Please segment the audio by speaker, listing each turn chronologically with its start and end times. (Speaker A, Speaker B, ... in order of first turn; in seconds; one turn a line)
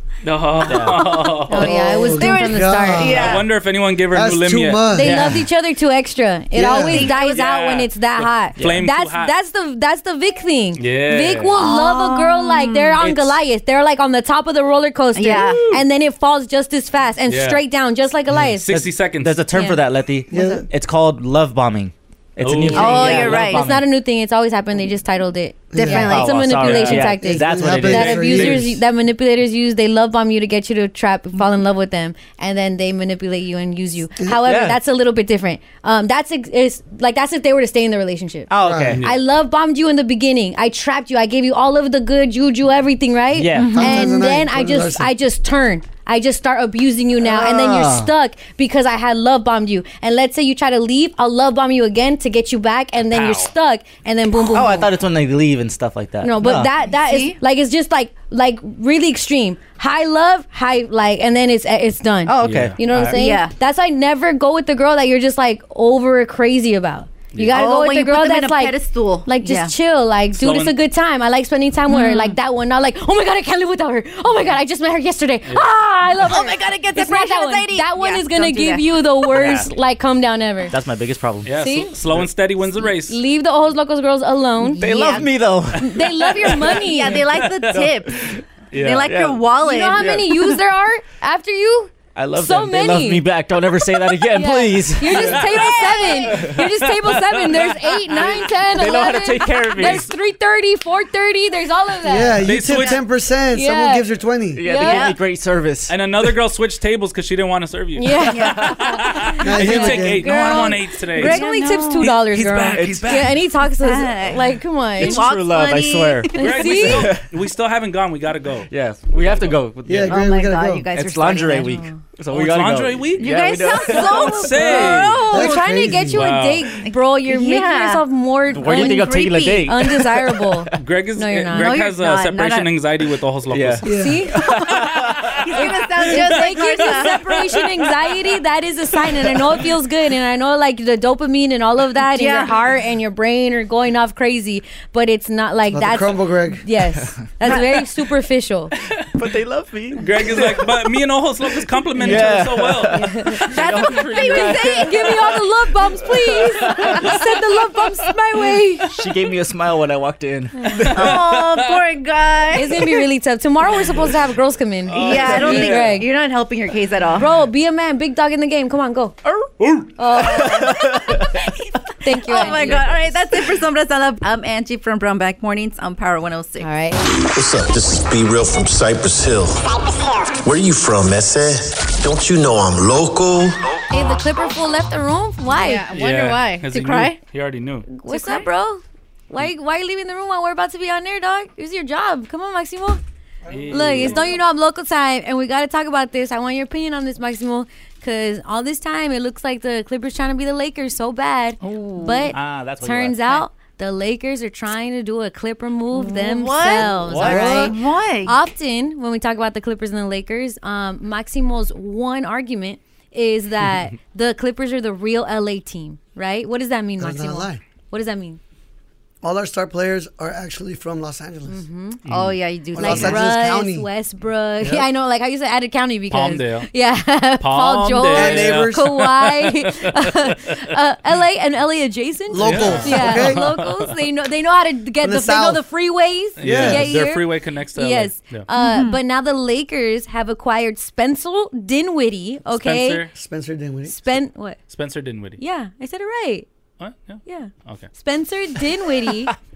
Speaker A: 0.2-1.7
Speaker B: 0.6-1.0
Speaker C: 1.5-3.2
Speaker D: 1.5-3.4
Speaker E: 2.2-3.4
Speaker A: 3.0-4.9
Speaker D: 4.1-5.4
Speaker C: 4.9-18.7
Speaker B: 5.0-5.4
Speaker D: 6.5-7.1
Speaker E: 6.8-7.4
Speaker A: 7.2-9.3
Speaker B: 8.6-8.8
Speaker A: 10.8-11.6
Speaker E: 11.6-13.0
Speaker A: 13.0-13.3
Speaker E: 15.1-15.6
Speaker A: 15.3-15.7
Speaker A: 17.3-17.6
Speaker A: 18.6-19.4
Speaker B: 18.7-23.8
Speaker C: 19.5-20.6
Speaker D: 20.3-20.6
Speaker A: 22.4-23.5
Speaker E: 22.7-23.6
Speaker C: 22.9-38.5
Speaker D: 25.7-26.2
Speaker E: 25.7-26.5
Speaker B: 25.8-28.6
Speaker A: 26.6-27.1
Speaker D: 27.2-28.8
Speaker B: 34.4-34.8
Speaker B: 38.5-39.0
Speaker D: 38.6-39.0
Speaker A: 39.0-39.2
Speaker C: 39.0-54.9
Speaker B: 43.3-43.9
Speaker E: 43.5-44.0
Speaker D: 43.7-45.1
Speaker B: 47.2-48.1
Speaker A: 53.1-53.5
Speaker B: 54.3-56.7
Speaker C: 56.2-80.7
Speaker E: 56.9-57.4
Speaker B: 62.2-63.2
Speaker A: 62.4-62.8
Speaker E: 63.1-63.5
Speaker E: 67.5-69.7
Speaker A: 70.3-70.8
Speaker E: 71.9-72.4
Speaker E: 76.2-79.3
Speaker B: 79.3-79.7
Speaker B: 80.7-81.5
Speaker A: 81.4-83.2
Speaker C: 81.5-81.9
Speaker C: 82.7-85.2
Speaker B: 84.7-86.8
Speaker E: 84.8-85.3
Speaker C: 85.8-87.3
Speaker E: 86.8-88.2
Speaker A: 87.2-88.1
Speaker A: 88.7-89.1
Speaker E: 88.8-90.6
Speaker B: 89.0-90.3
Speaker C: 89.6-93.2
Speaker B: 92.1-95.7
Speaker C: 94.3-103.0
Speaker E: 95.2-96.4
Speaker B: 96.3-96.6
Speaker A: 97.0-98.3
Speaker B: 98.1-100.1
Speaker D: 102.0-104.6
Speaker A: 102.4-103.0
Speaker C: 103.5-104.1
Speaker B: 104.5-106.3
Speaker C: 104.6-105.1
Speaker E: 104.7-105.2
Speaker A: 105.9-111.4
Speaker C: 108.0-115.2
Speaker E: 108.3-109.0
Speaker D: 109.4-110.2
Speaker E: 111.2-112.1
Speaker A: 112.0-113.4
Speaker B: 112.7-113.3
Speaker E: 113.7-116.5
Speaker B: 115.0-117.2
Speaker C: 116.3-117.1
Speaker A: 116.3-119.6
Speaker B: 118.7-120.3
Speaker D: 119.8-120.9
Speaker E: 120.0-121.8
Speaker B: 120.9-124.4
Speaker C: 121.7-122.0
Speaker A: 122.3-125.2
Speaker E: 123.2-125.6
Speaker C: 124.1-131.8
Speaker D: 125.3-126.3
Speaker A: 126.1-126.8
Speaker E: 126.8-128.0
Speaker B: 128.5-130.8
Speaker E: 128.6-129.7
Speaker A: 130.8-133.9
Speaker E: 131.5-132.7
Speaker B: 133.5-135.3
Speaker D: 133.8-134.2
Speaker C: 133.9-134.4
Speaker E: 134.4-134.8
Speaker A: 134.7-138.1
Speaker E: 135.4-137.2
Speaker C: 135.6-148.7
Speaker E: 142.0-142.6
Speaker D: 145.7-146.6
Speaker B: 149.1-150.8
Speaker A: 150.0-153.1
Speaker B: 151.9-157.3
Speaker C: 152.9-153.4
Speaker E: 153.5-154.9
Speaker C: 154.2-158.9
Speaker B: 158.9-161.2
Speaker C: 160.6-160.8
Speaker A: 160.9-161.8
Speaker E: 160.9-162.9
Speaker C: 162.5-166.1
Speaker A: 164.9-166.0
Speaker E: 165.0-167.3
Speaker B: 165.0-165.7
Speaker C: 167.2-169.2
Speaker A: 169.6-169.9
Speaker C: 170.0-170.7
Speaker B: 170.2-171.4
Speaker E: 170.2-176.7
Speaker C: 172.0-172.9
Speaker B: 172.6-172.9
Speaker C: 176.6-177.0
Speaker F: 177.3-179.6
Speaker F: 180.3-183.6
Speaker C: 183.9-185.8
Speaker E: 185.5-187.2
Speaker A: 185.9-187.9
Speaker C: 187.9-193.0
Speaker E: 188.1-188.5
Speaker D: 193.4-194.3
Speaker A: 193.5-194.3
Speaker C: 193.7-218.4
Speaker E: 201.7-202.3
Speaker B: 202.3-203.4
Speaker E: 205.9-208.4
Speaker B: 206.8-207.7
Speaker D: 207.2-207.7
Speaker D: 217.0-217.6
Speaker D: 219.2-221.6
Speaker C: 221.5-222.0
Speaker A: 222.1-222.4
Speaker E: 222.1-223.2
Speaker D: 222.7-223.9
Speaker C: 222.8-243.0
Speaker D: 224.6-224.8
Speaker A: 226.1-226.7
Speaker A: 227.4-230.6
Speaker D: 228.1-228.9
Speaker D: 232.3-233.5
Speaker A: 232.4-234.0
Speaker D: 235.0-235.6
Speaker A: 236.4-238.5
Speaker D: 236.4-236.9
Speaker E: 238.5-239.0
Speaker A: 242.5-243.1
Speaker D: 243.1-244.1
Speaker C: 243.8-244.6
Speaker A: 244.7-245.4
Speaker C: 245.4-246.5
Speaker A: 246.8-247.9
Speaker C: 247.2-249.3